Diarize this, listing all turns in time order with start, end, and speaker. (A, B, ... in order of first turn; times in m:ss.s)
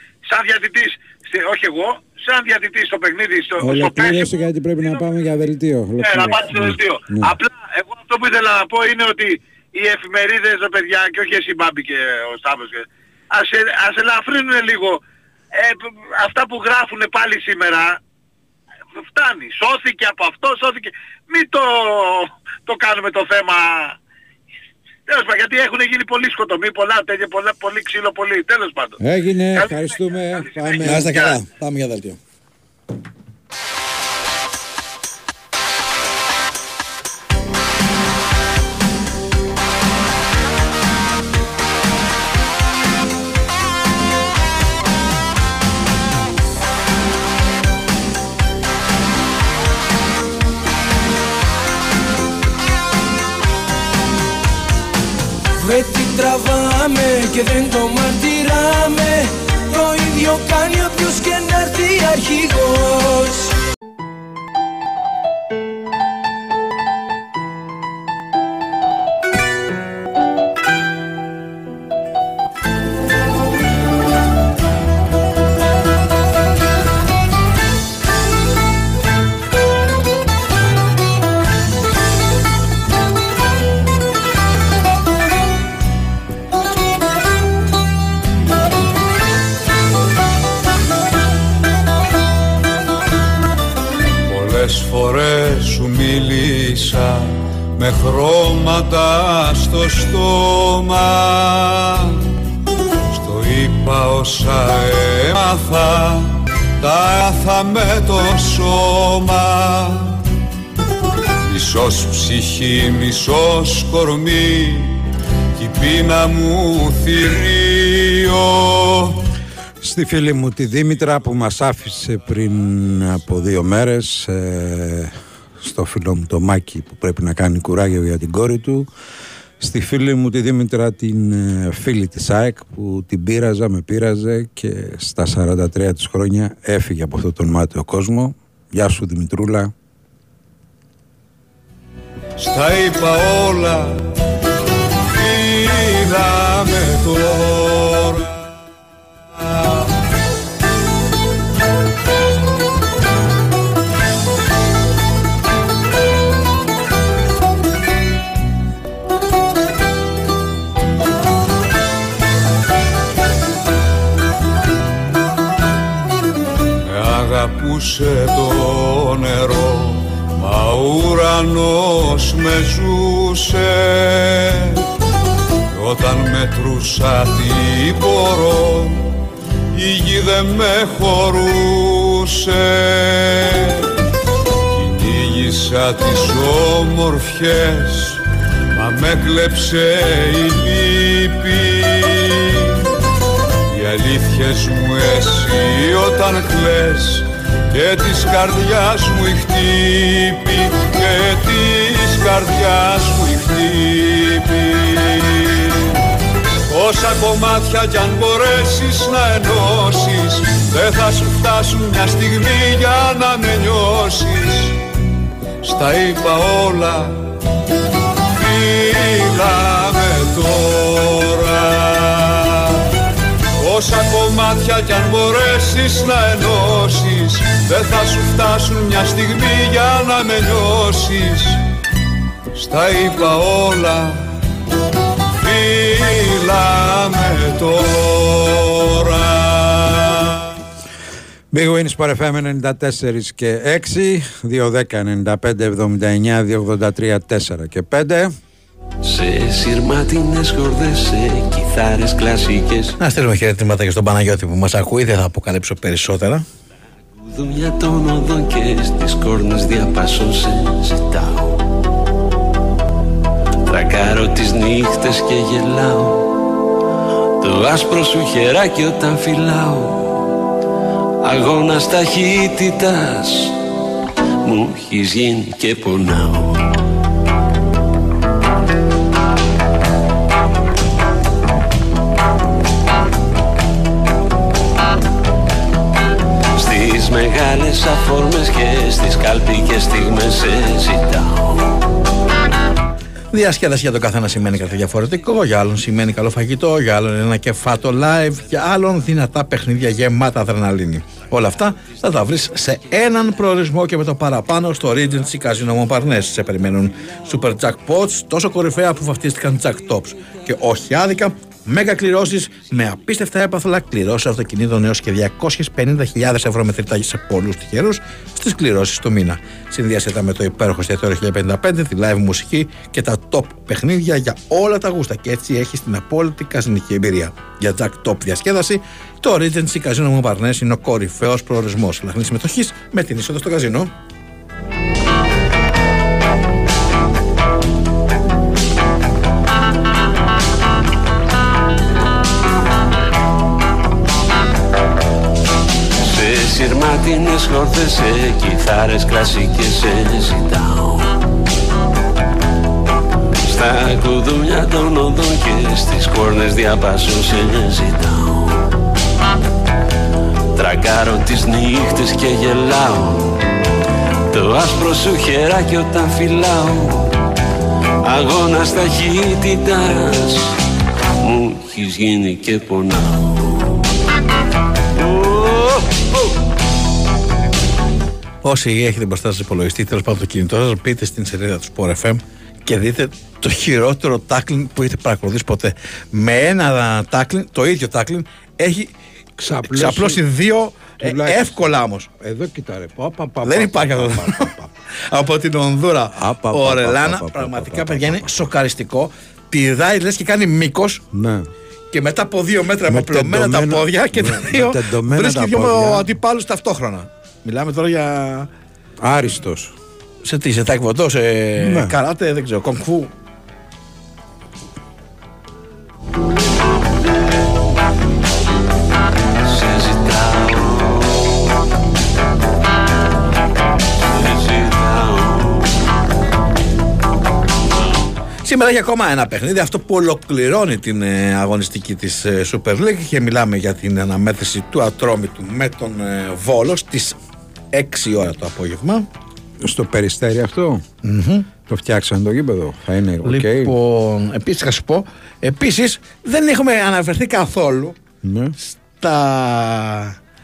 0:00.2-0:04.3 A
0:03.6-0:07.3 B
0:06.0-0:15.0 A
0:15.5-0:18.0 A
0:19.0-0:23.9 A
0:25.1-0:29.0 A
0:29.0-0:31.2 B
0:29.5-0:31.3 A
0:30.8-0:32.2 C
0:55.6-1:03.5 D
1:34.3-1:42.2 E
1:43.1-1:50.2 E
1:51.5-1:55.0 E
1:55.6-1:59.1 E
1:59.8-2:08.9 B
2:09.6-2:19.7 B
2:22.4-2:24.0 E
2:25.0-2:28.5 E
2:29.4-2:29.9 E
2:46.9-2:54.8 E
2:55.7-2:59.1 E
2:59.7-3:03.9 E
3:04.7-3:08.2 E
3:08.8-3:12.7 E
3:13.7-3:25.8 E
3:26.7-3:34.8 E
3:35.6-3:37.2 E
3:38.3-3:42.8 E
3:43.6-3:51.6 E
3:52.6-3:54.3 E
3:55.4-4:00.3 E
4:01.5-4:08.3 B
4:09.0-4:12.9 F
4:13.0-4:16.4 C
4:17.2-4:21.6 F
4:23.7-4:26.3 F
4:27.4-4:30.1 F
4:31.2-4:33.5 F
4:34.4-4:36.6 F
4:46.6-4:51.7 F
4:53.3-5:33.9 C
5:46.0-5:51.1 F
5:53.4-5:58.6 F
6:00.6-6:03.4 F
6:04.3-6:07.1 F
6:08.0-6:10.5 F
6:11.2-6:13.5 F
6:15.1-6:15.8 F
6:18.4-6:28.9 C
6:29.4-6:30.2 B
6:29.6-6:32.1 C
6:31.0-6:31.6 B
6:32.2-6:34.7 B
6:33.4-6:34.5 C
6:35.1-6:41.0 C
6:36.2-6:38.5 B
6:41.1-6:41.5 B
6:41.9-6:48.5 C
6:42.9-6:46.1 B
6:49.0-6:49.7 B
6:50.2-6:53.1 C
6:51.6-6:51.9 B
6:59.5-7:01.3 F
7:04.1-7:05.6 F
7:08.4-7:17.2 C
7:17.7-7:19.1 C
7:19.6-7:20.8 B
7:21.0-7:21.5 C
7:21.6-7:23.7 B
7:23.2-7:28.0 C
7:28.2-7:28.5 B
7:28.8-7:30.2 C